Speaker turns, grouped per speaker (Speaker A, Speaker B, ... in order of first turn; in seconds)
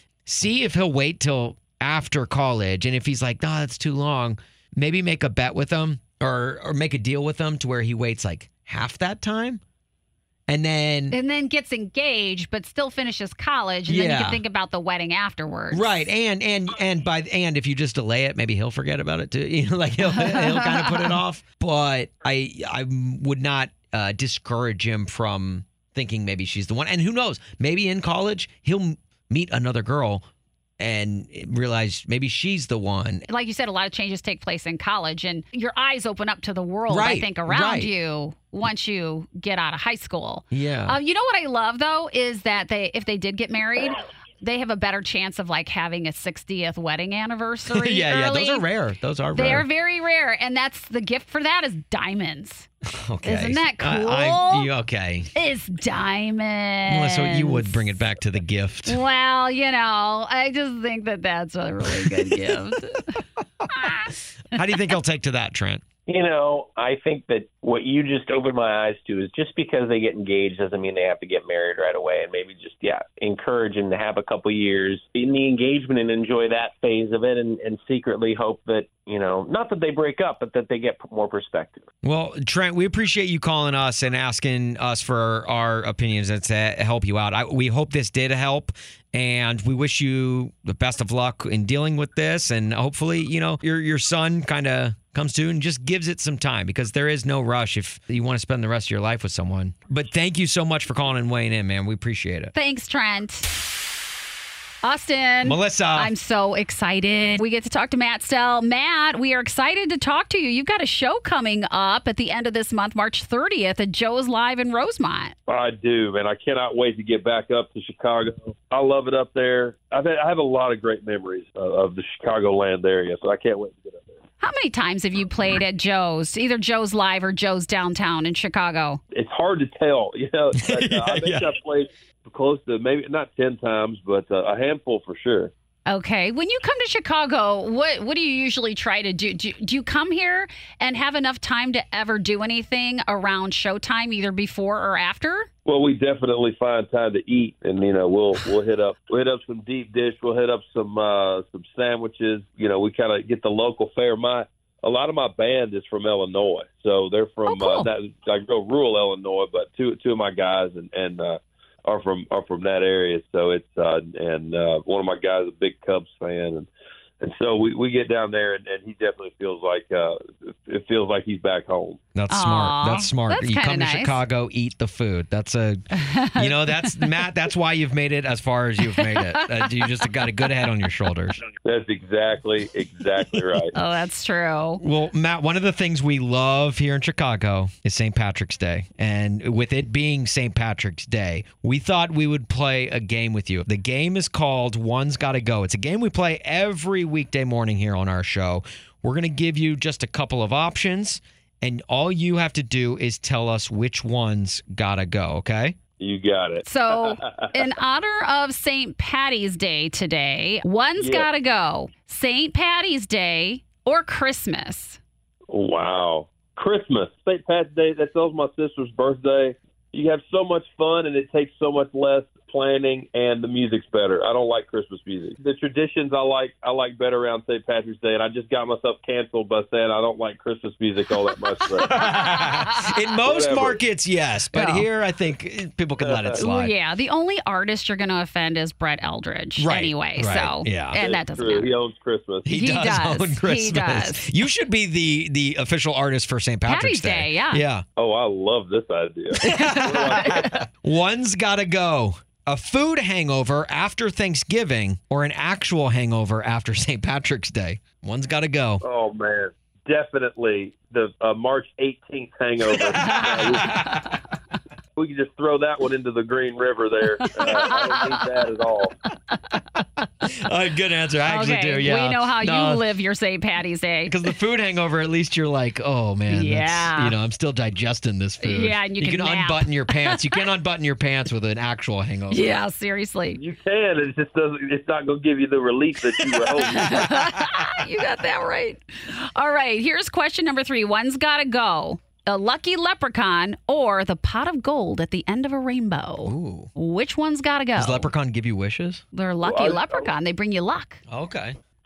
Speaker A: 0.2-9.6, 10.5-11.2, 13.9-14.4, 15.7-30.2, 30.8-33.2, 36.9-37.9, 40.5-41.0, 47.7-49.6, 52.9-55.3, 56.9-59.0, 62.0-62.4, 64.5-65.8, 82.0-102.5, 105.4-106.1, 130.5-131.5, 172.1-175.8, 176.3-181.4, 184.8-205.8, 231.8-236.7, 239.6-241.0, 242.4-247.8, 249.4-258.8, 262.7-264.1, 270.2-272.8, 274.1-282.6, 296.2-296.7, 297.8-299.0, 301.1-301.6
Speaker B: 11.1-15.9, 20.0-21.2, 33.3-48.6, 49.3-52.7, 53.2-54.7, 55.3-57.9, 58.9-63.1, 63.7-64.2, 102.5-103.5, 104.8-115.3, 124.4-129.0, 135.9-145.5, 157.4-157.9, 172.3-174.2, 175.9-177.2, 178.9-180.5, 183.7-184.8, 206.6-215.0, 231.9-232.9, 234.5-234.9, 236.4-241.7, 242.5-244.3, 246.7-247.6, 249.4-250.5, 267.2-268.2, 271.3-274.3, 276.3-277.1, 278.4-280.4, 282.3-283.4, 286.6-298.1, 299.1-301.0
Speaker C: 66.1-81.9
Speaker D: 115.5-124.2, 129.1-135.5, 145.7-166.7, 167.2-172.0, 181.6-183.7, 206.0-207.5, 211.0-211.3, 215.5-232.2, 233.2-233.8, 236.0-236.3, 241.0-242.5, 248.0-250.5, 258.8-263.8, 264.9-268.9, 283.4-287.1, 299.4-300.1